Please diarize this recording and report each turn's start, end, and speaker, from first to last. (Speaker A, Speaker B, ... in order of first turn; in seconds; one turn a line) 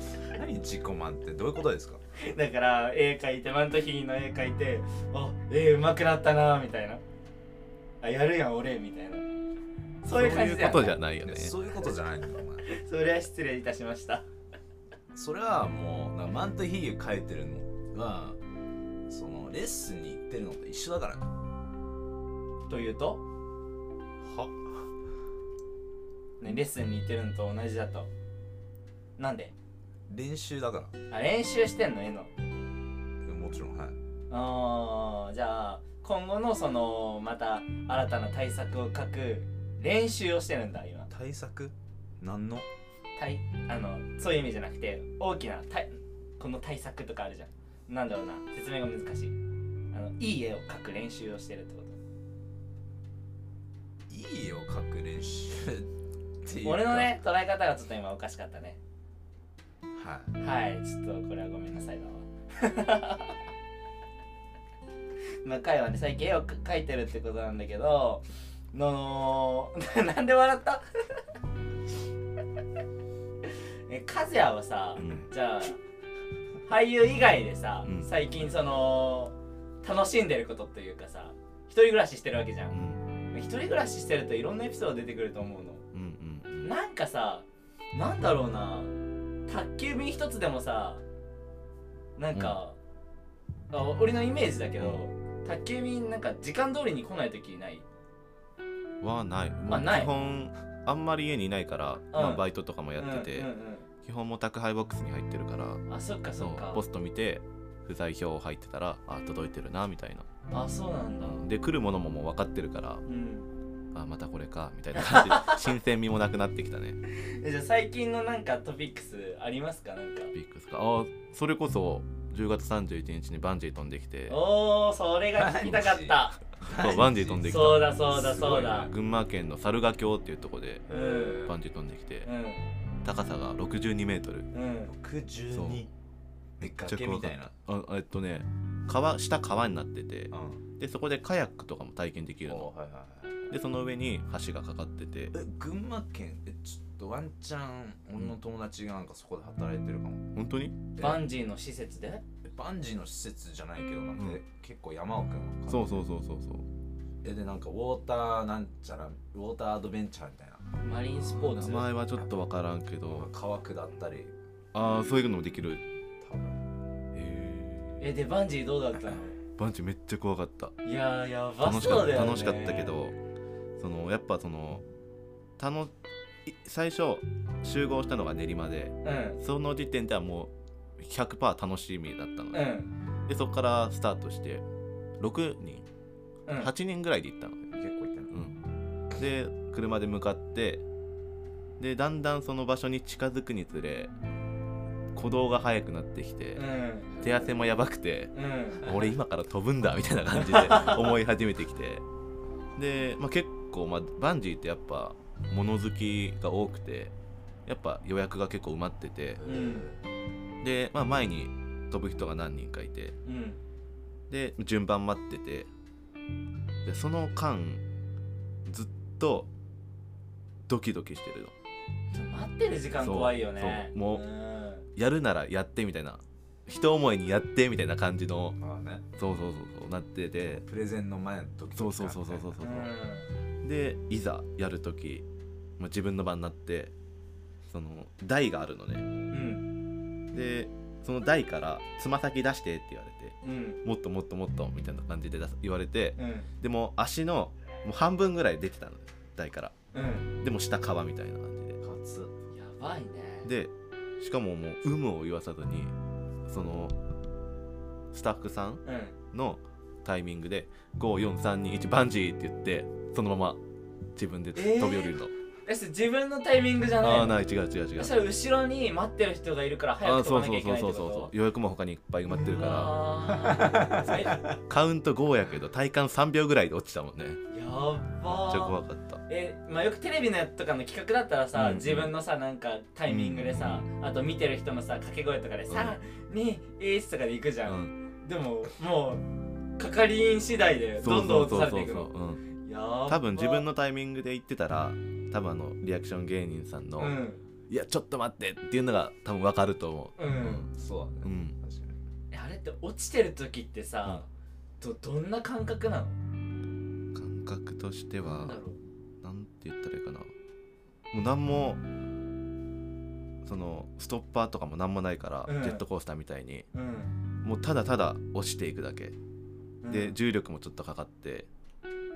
Speaker A: 0.2-2.0
Speaker B: 2.2-7.0
Speaker B: 8.0-9.2
Speaker B: 10.0-11.0
Speaker C: 10.1-11.6
Speaker A: 11.2-12.7
Speaker B: 12.7-14.3
Speaker A: 15.1-18.4
Speaker A: 19.1-21.3
Speaker B: 22.7-23.2
Speaker A: 24.2-24.9
Speaker B: 26.4-28.1
Speaker B: 29.2-29.5
Speaker A: 30.1-30.9
Speaker B: 31.1-32.3
Speaker A: 33.2-34.0
Speaker B: 34.3-41.1
Speaker A: 41.1-42.7
Speaker B: 43.2-49.4
Speaker B: 49.9-52.0
Speaker A: 54.1-55.9
Speaker A: 56.4-57.2
Speaker B: 56.6-58.8
Speaker A: 59.9-60.4
Speaker B: 60.4-63.4
Speaker B: 65.4-70.8
Speaker B: 73.5-75.8
Speaker C: 75.0-75.3
Speaker B: 76.7-82.8
Speaker C: 77.8-78.1
Speaker C: 82.7-83.0
Speaker B: 83.3-85.8
Speaker C: 85.9-86.7
Speaker B: 86.6-89.0
Speaker B: 89.5-91.0
Speaker B: 92.2-92.8
Speaker C: 92.3-92.6
Speaker B: 93.7-97.8
Speaker C: 94.8-95.0
Speaker C: 99.0-103.5
Speaker B: 99.7-100.1
Speaker B: 102.1-102.4
Speaker B: 103.0-103.9
Speaker C: 104.0-105.8
Speaker B: 105.9-106.8
Speaker C: 106.4-110.3
Speaker B: 110.5-111.5
Speaker C: 111.2-113.0
Speaker B: 113.1-113.5
Speaker C: 113.9-117.0
Speaker B: 115.0-115.6
Speaker B: 117.1-120.3
Speaker C: 120.3-124.4
Speaker B: 124.3-126.4
Speaker A: 125.4-127.6
Speaker C: 126.6-132.3
Speaker B: 127.5-128.9
Speaker A: 130.9-131.6
Speaker B: 130.9-131.4
Speaker B: 132.2-132.7
Speaker C: 133.0-134.5
Speaker B: 134.5-134.9
Speaker A: 134.9-135.9
Speaker C: 135.5-135.9
Speaker A: 136.6-137.5
Speaker C: 136.6-142.7
Speaker A: 140.3-140.6
Speaker A: 142.5-143.5
Speaker C: 143.5-145.3
Speaker A: 145.3-150.3
Speaker C: 150.3-150.9
Speaker A: 151.0-151.2
Speaker B: 151.0-152.2
Speaker A: 152.4-156.1
Speaker C: 155.7-156.7
Speaker A: 157.2-160.7
Speaker B: 160.8-161.9
Speaker C: 161.2-163.3
Speaker A: 163.1-164.3
Speaker C: 164.7-165.8
Speaker A: 166.2-166.6
Speaker C: 167.1-168.1
Speaker B: 168.0-169.4
Speaker C: 169.6-170.8
Speaker B: 170.8-172.9
Speaker C: 171.6-173.2
Speaker C: 173.8-174.8
Speaker C: 175.6-175.9
Speaker C: 176.5-182.7
Speaker B: 179.0-179.4
Speaker B: 182.5-182.9
Speaker C: 183.3-184.6
Speaker C: 185.2-185.9
Speaker C: 186.6-187.7
Speaker A: 187.7-188.3
Speaker C: 188.3-188.6
Speaker C: 189.1-190.8
Speaker C: 191.8-194.1
Speaker C: 195.1-196.7
Speaker B: 196.6-197.3
Speaker C: 197.2-202.0
Speaker A: 197.2-197.5
Speaker B: 198.3-198.9
Speaker B: 200.4-201.2
Speaker C: 202.8-207.1
Speaker C: 207.7-209.4
Speaker A: 209.4-210.0
Speaker B: 209.4-209.9
Speaker C: 210.6-213.2
Speaker B: 213.2-213.6
Speaker C: 214.3-215.7
Speaker C: 216.8-217.8
Speaker C: 218.7-219.5
Speaker C: 220.7-221.5
Speaker B: 222.1-224.9
Speaker C: 223.0-224.2
Speaker C: 224.9-228.6
Speaker A: 228.6-229.1
Speaker C: 229.2-230.6
Speaker A: 230.4-232.6
Speaker C: 231.8-232.9
Speaker B: 232.6-233.3
Speaker C: 233.6-235.2
Speaker C: 235.8-236.9
Speaker C: 237.7-239.1
Speaker B: 239.3-239.7
Speaker C: 240.3-249.8
Speaker B: 243.4-243.8
Speaker B: 246.2-246.5
Speaker B: 249.9-250.3
Speaker C: 250.4-251.8
Speaker A: 251.8-252.3
Speaker B: 252.5-253.5
Speaker C: 253.4-255.9
Speaker C: 256.5-256.9
Speaker C: 258.1-263.6
Speaker B: 258.9-259.1
Speaker C: 264.2-265.3
Speaker B: 264.6-267.4
Speaker C: 267.0-268.1
Speaker B: 268.0-271.3
Speaker C: 270.0-277.4
Speaker B: 272.3-274.5
Speaker A: 273.5-274.5
Speaker B: 277.5-278.8
Speaker C: 278.3-279.2
Speaker B: 279.3-289.3
Speaker C: 281.6-282.1
Speaker C: 283.1-283.9
Speaker C: 285.7-286.0
Speaker C: 287.7-287.9
Speaker B: 289.8-292.1
Speaker C: 291.0-292.5
Speaker B: 292.6-293.7
Speaker C: 293.1-297.2
Speaker B: 297.0-297.4
Speaker C: 297.7-300.7
Speaker B: 300.2-300.7
Speaker A: 300.7-302.0
Speaker C: 301.2-301.6
Speaker B: 302.3-304.3
Speaker B: 304.8-306.2
Speaker C: 307.1-308.6
Speaker B: 308.2-308.8
Speaker C: 309.2-310.3
Speaker C: 311.1-311.8
Speaker C: 313.4-316.7
Speaker B: 315.5-315.8
Speaker B: 316.7-317.1
Speaker C: 317.4-319.2
Speaker B: 319.8-320.2
Speaker C: 319.9-321.5